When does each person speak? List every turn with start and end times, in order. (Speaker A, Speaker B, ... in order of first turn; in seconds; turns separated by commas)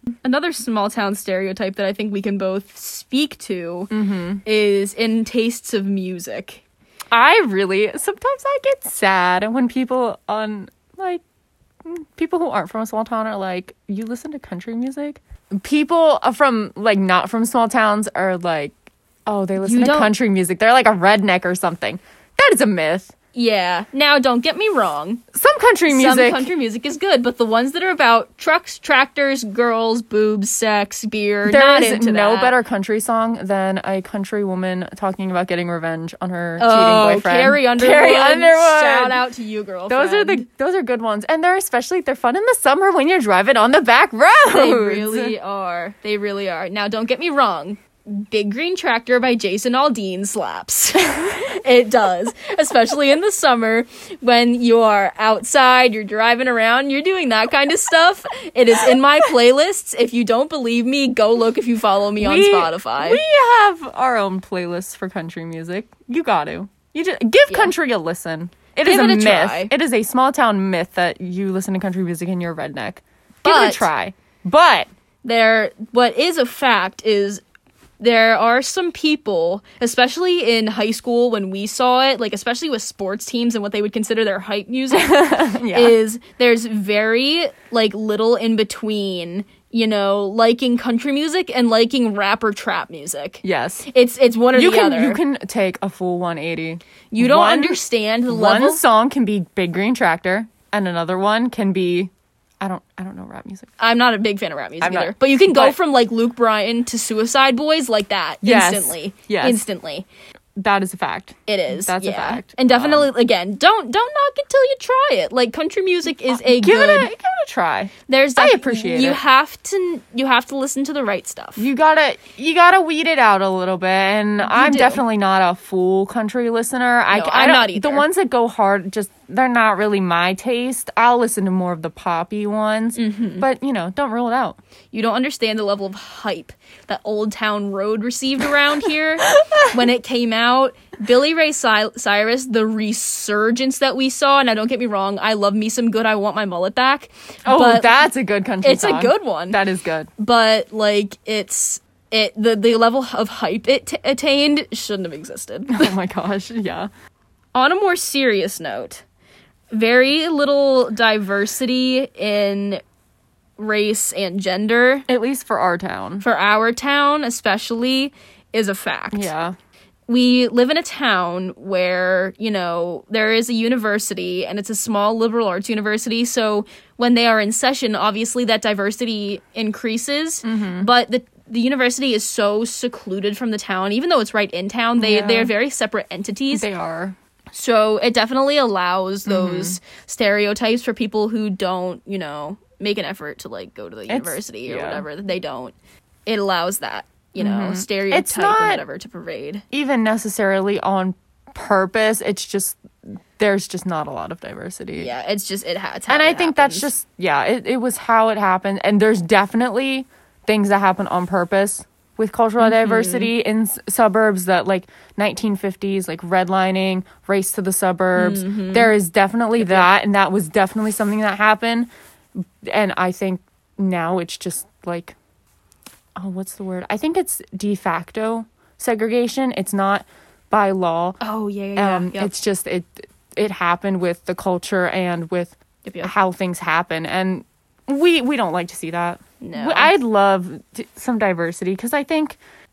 Speaker A: 0.2-3.9, Speaker B: 3.9-4.4, Speaker A: 4.5-6.6, Speaker B: 7.1-11.2, Speaker B: 11.8-18.8, Speaker B: 19.3-23.1, Speaker A: 19.6-20.1, Speaker A: 23.3-25.2, Speaker B: 25.3-26.5, Speaker A: 25.9-32.5, Speaker B: 31.5-39.2, Speaker A: 36.6-40.5, Speaker B: 39.9-45.4, Speaker A: 44.5-63.2, Speaker B: 62.2-74.9, Speaker A: 67.5-67.7, Speaker A: 68.8-69.7, Speaker A: 73.4-73.9, Speaker A: 75.2-77.4, Speaker A: 78.0-95.2, Speaker B: 84.9-86.0, Speaker B: 93.4-93.9, Speaker B: 94.5-103.7, Speaker A: 97.1-98.8, Speaker A: 103.8-110.1, Speaker B: 104.8-105.8, Speaker B: 108.4-109.6, Speaker B: 110.6-113.1, Speaker A: 111.5-117.1, Speaker B: 116.3-119.2, Speaker A: 118.1-121.7, Speaker B: 121.6-134.6, Speaker A: 124.4-125.0, Speaker A: 127.1-128.1, Speaker A: 133.0-133.4, Speaker A: 134.9-147.9, Speaker B: 139.3-139.8, Speaker B: 147.5-150.1, Speaker A: 148.6-149.6, Speaker A: 150.2-155.9, Speaker B: 155.7-156.9, Speaker A: 157.5-159.0, Speaker A: 159.7-162.8, Speaker A: 163.6-165.1, Speaker B: 165.1-166.2, Speaker A: 166.2-169.3, Speaker B: 169.1-169.6, Speaker A: 170.1-186.7, Speaker B: 180.4-180.9, Speaker B: 185.0-185.5, Speaker B: 186.5-187.2, Speaker A: 187.5-195.8, Speaker B: 189.3-189.8, Speaker B: 194.1-195.1, Speaker A: 196.3-199.7, Speaker B: 197.4-198.8, Speaker B: 199.7-205.1, Speaker A: 205.0-206.9, Speaker B: 206.1-225.2, Speaker A: 212.6-213.3, Speaker A: 218.2-218.9, Speaker A: 219.6-219.9, Speaker B: 226.2-231.2, Speaker A: 231.2-232.3, Speaker B: 231.8-242.4, Speaker A: 235.8-236.1, Speaker A: 239.4-239.9